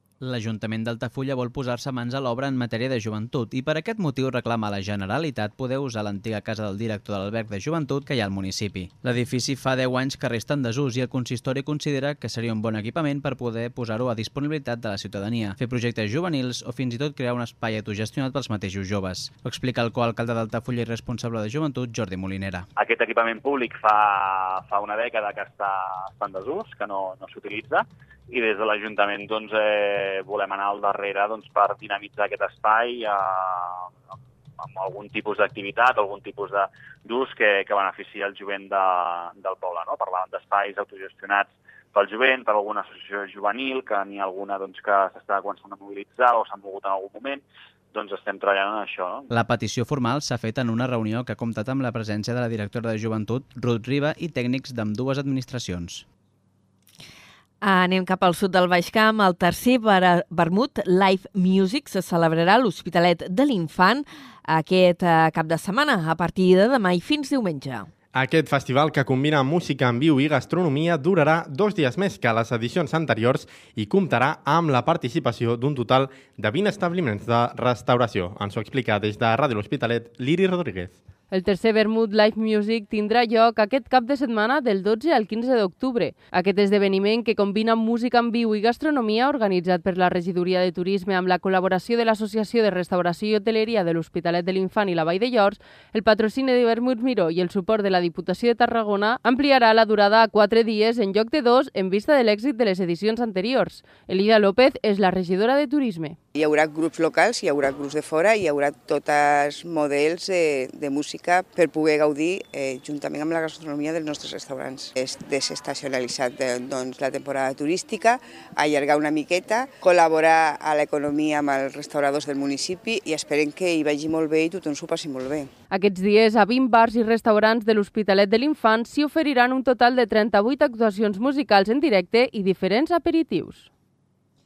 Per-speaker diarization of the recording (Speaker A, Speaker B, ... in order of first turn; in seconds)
Speaker A: 0.2-22.7, 49.3-56.0
Speaker B: 22.8-33.9, 34.6-47.4, 47.9-49.3
Speaker C: 57.6-67.9
Speaker D: 68.1-80.9
Speaker E: 81.3-106.2, 125.7-133.7
Speaker F: 106.3-125.5